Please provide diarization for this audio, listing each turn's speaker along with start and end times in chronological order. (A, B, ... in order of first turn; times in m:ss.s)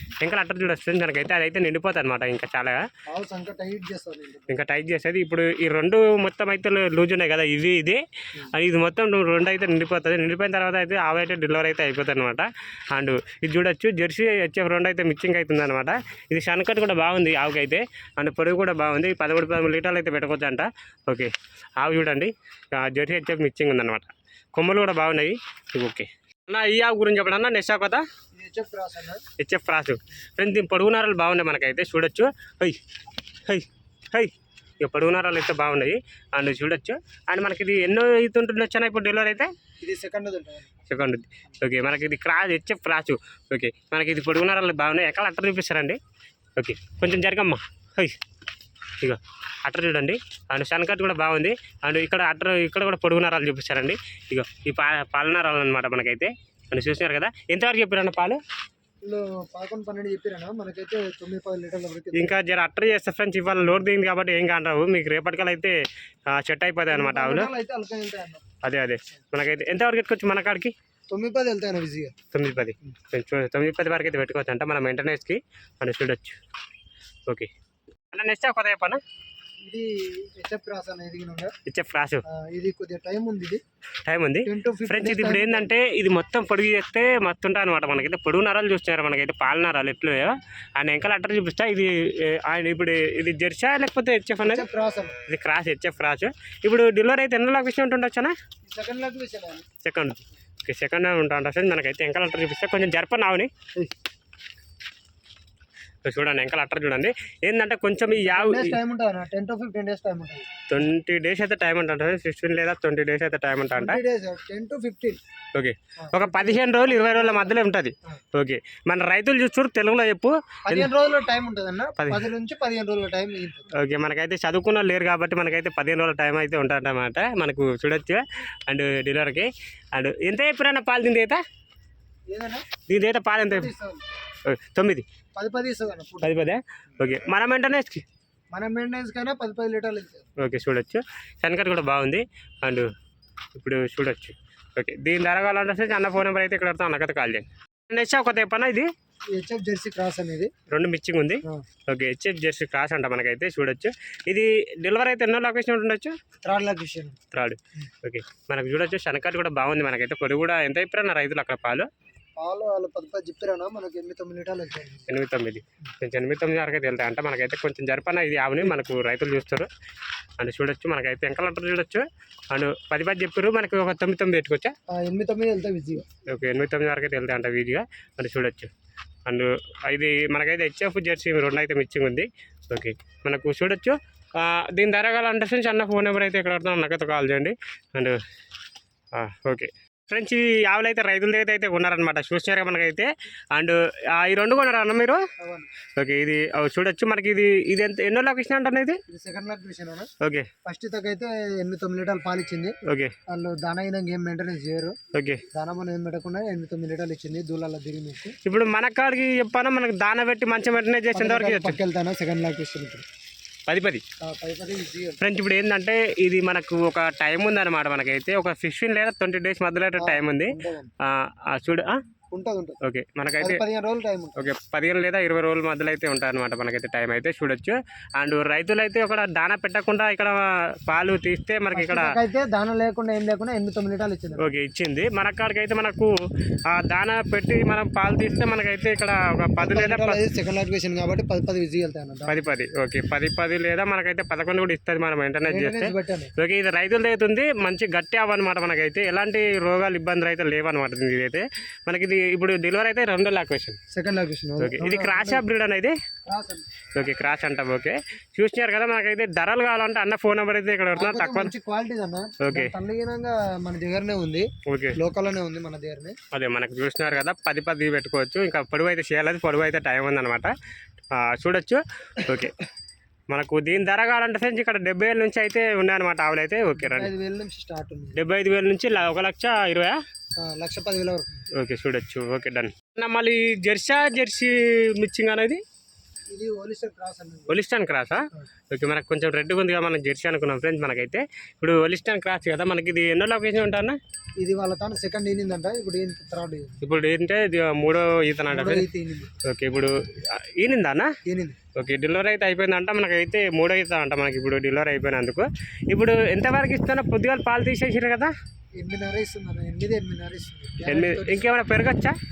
0:00.2-0:02.8 A
0:03.1-0:04.6 B
0:04.5-0:28.0 A
0:28.3-0:29.2 B
0:29.3-0:32.8 A
0:33.4-0:39.5 A
0:39.8-0:40.8 B
0:40.8-0:46.0 A
0:46.6-0:48.2 A
0:49.0-0:58.4 A
0:59.0-1:02.4 B
1:02.1-1:05.8 A
1:06.3-1:07.5 A
1:06.9-1:08.5 B
1:08.6-1:10.7 A
1:11.1-1:12.2 B
1:12.3-1:16.4 A
1:18.1-1:19.0 A
1:19.6-1:21.5 B
1:21.6-1:22.2 A
1:22.3-1:23.6 B
1:24.0-1:34.7 A
1:24.4-1:25.7 B
1:34.4-1:35.2 B
1:35.2-1:38.3 A
1:38.6-1:39.7 B
1:39.8-1:43.5 A
1:46.0-1:48.8 A
1:48.2-1:50.5 B
1:50.7-1:54.0 A
1:53.7-1:55.2 B
1:55.6-2:00.9 A
1:56.0-1:58.2 B
2:00.7-2:03.7 B
2:02.0-2:02.3 A
2:03.7-2:11.4 A
2:12.3-2:12.7 B
2:12.8-2:13.7 A
2:13.5-2:14.0 B
2:14.4-2:15.0 A
2:15.4-2:16.5 B
2:16.2-2:18.0 A
2:18.5-2:20.3 B
2:20.4-2:22.9 A
2:23.6-2:28.9 A
2:29.3-2:30.5 B
2:30.7-2:36.1 A
2:36.4-2:37.2 B
2:37.3-2:41.9 A
2:42.4-2:45.1 B
2:45.1-2:49.7 A
2:50.4-2:54.7 A
2:54.9-2:56.1 B
2:56.3-2:58.7 A
2:59.3-3:08.2 A
3:09.1-3:15.2 A
3:15.4-3:15.7 B
3:16.0-3:19.0 A
3:19.1-3:20.1 B
3:20.2-3:20.5 A
3:20.6-3:22.8 B
3:22.8-3:23.1 A
3:23.3-3:25.0 B
3:25.1-3:25.4 A
3:25.6-3:28.4 B
3:28.4-3:31.8 A
3:31.1-3:33.0 B
3:33.7-3:34.0 A
3:34.2-3:35.2 B
3:35.2-3:42.0 A
3:40.0-3:40.9 B
3:42.3-3:42.8 B
3:42.8-3:43.6 A
3:43.4-3:44.4 B
3:44.4-3:52.1 A
3:51.8-3:54.5 B
3:54.4-3:56.1 A
3:56.7-4:00.2 A
3:59.6-4:02.4 B
4:02.3-4:13.8 A
4:05.5-4:06.3 B
4:13.9-4:15.4 B
4:14.6-4:15.9 A
4:16.3-4:16.7 B
4:16.9-4:21.5 A
4:21.0-4:26.2 B
4:22.4-4:22.7 A
4:24.7-4:25.0 A
4:26.3-4:30.5 A
4:31.1-4:32.6 A
4:33.3-4:37.1 A
4:36.8-4:38.2 B
4:38.2-4:40.0 A
4:40.4-4:41.5 B
4:41.5-4:45.6 A
4:46.3-4:47.6 B
4:47.5-4:54.0 A
4:54.4-4:56.8 B
4:56.8-4:58.9 A
4:58.5-4:59.3 B
4:59.4-5:01.1 A
5:01.3-5:01.6 B
5:01.8-5:08.3 A
5:08.8-5:11.4 B
5:10.9-5:12.2 A